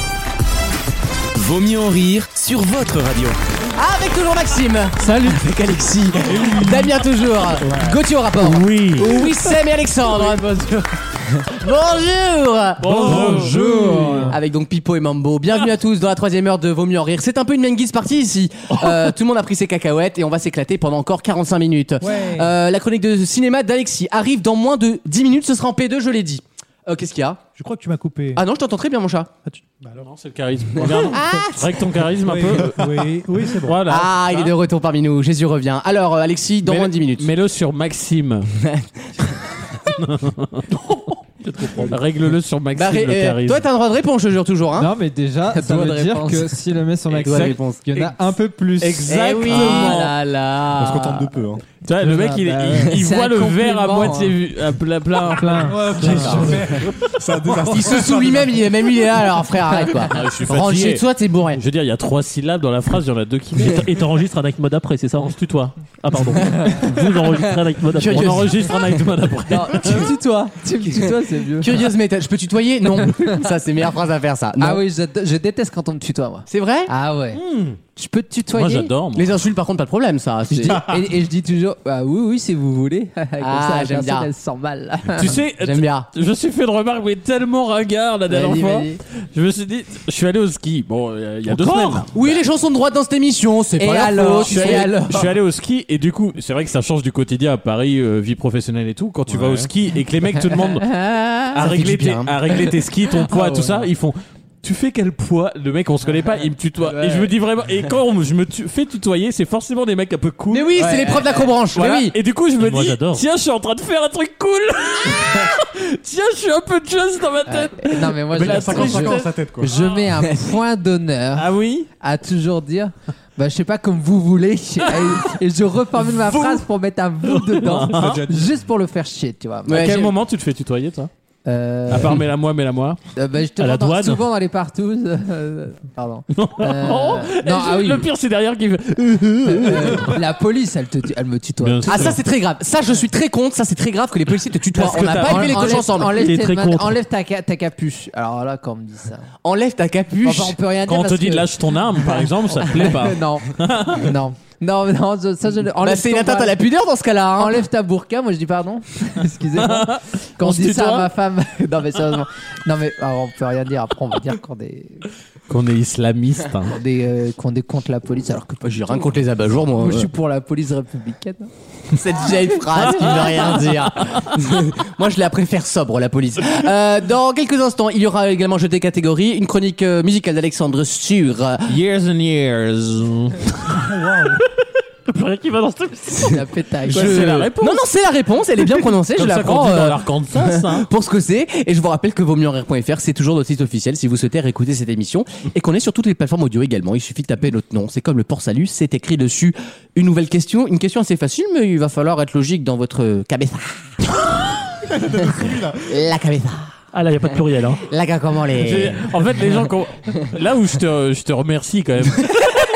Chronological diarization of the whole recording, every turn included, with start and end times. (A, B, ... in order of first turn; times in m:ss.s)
0:01.3-0:03.4 A
0:03.8-0:13.5 B
0:06.2-0:07.0 C
0:07.6-0:09.5 D
0:12.8-0:13.5 D
0:12.8-0:14.4 C
0:13.0-0:14.4 E
0:14.3-0:27.4 B
0:22.0-0:22.5 C
0:27.6-0:28.4 C
0:28.3-0:29.3 B
0:29.4-0:30.1 C
0:30.0-0:33.1 D
0:30.8-0:31.8 B
0:32.2-0:33.8 C
0:33.6-0:34.5 D
0:33.9-0:37.3 B
0:36.6-0:38.5 D
0:38.6-0:39.7 B
0:39.9-0:40.7 D
0:41.6-0:41.9 F
0:41.7-0:43.6 D
0:42.7-0:44.9 B
0:44.8-0:49.5 E
0:45.5-0:46.5 B
0:45.8-0:46.1 G
0:47.1-0:48.1 B
0:48.8-0:50.1 D
0:48.9-0:51.4 B
0:49.5-0:49.9 G
0:50.7-0:51.6 H
0:51.8-0:56.4 D
0:52.0-0:53.0 E
0:52.8-0:54.4 G
0:55.3-0:56.6 E
0:55.6-0:56.9 C
0:56.0-0:56.6 B
0:56.7-0:58.6 H
0:57.6-1:01.6 B
0:59.9-1:04.1 D
1:03.6-1:05.4 F
1:05.2-1:05.7 D
1:05.9-1:08.5 F
1:06.7-1:10.1 D
1:07.9-1:08.5 B
1:09.5-1:11.7 G
1:11.6-1:14.8 B
1:12.8-1:13.4 G
1:14.6-1:17.4 G
1:16.5-1:16.9 B
1:17.3-1:17.8 D
1:18.0-1:18.9 G
1:18.5-1:19.4 D
1:19.1-1:20.8 B
1:20.5-1:25.3 G
1:23.4-1:24.3 B
1:25.2-1:32.3 D
1:25.2-1:26.1 B
1:28.3-1:29.0 G
1:31.5-1:35.2 B
1:33.8-1:35.2 G
1:34.4-1:40.9 D
1:39.3-1:39.7 H
1:40.7-1:41.5 G
1:41.5-1:59.3 D
1:41.5-1:42.6 B
1:43.3-1:43.8 G
1:46.1-1:47.3 G
1:50.5-1:52.2 B
1:50.7-1:51.5 G
1:52.6-1:53.2 F
1:57.5-2:01.4 G
1:58.3-1:59.7 H
2:01.3-2:01.9 D
2:02.0-2:09.8 G
2:06.0-2:06.6 D
2:07.4-2:08.2 D
2:07.8-2:08.5 H
2:09.6-2:10.1 B
2:09.7-2:11.1 D
2:11.4-2:12.2 G
2:11.9-2:13.0 D
2:13.2-2:18.1 G
2:13.6-2:14.2 F
2:16.3-2:20.2 D
2:19.4-2:22.1 G
2:21.6-2:22.2 D
2:21.9-2:26.2 B
2:24.7-2:26.9 D
2:25.1-2:29.3 G
2:29.4-2:30.6 B
2:30.2-2:36.6 G
2:30.8-2:34.1 D
2:35.8-2:37.6 B
2:37.4-2:45.1 G
2:39.6-2:41.1 D
2:45.5-2:46.8 D
2:46.7-2:49.1 G
2:48.6-2:50.1 B
2:49.8-2:51.5 G
2:51.9-3:01.7 B
2:52.9-2:53.6 D
2:52.9-2:53.4 G
3:01.7-3:04.3 D
3:03.7-3:04.4 C
3:05.1-3:07.8 D
3:06.2-3:07.2 G
3:06.9-3:23.8 B
3:08.6-3:10.9 D
3:24.8-3:26.0 H
3:25.9-3:26.7 B
3:26.9-3:27.8 F
3:27.9-3:29.0 B
3:28.5-3:32.5 D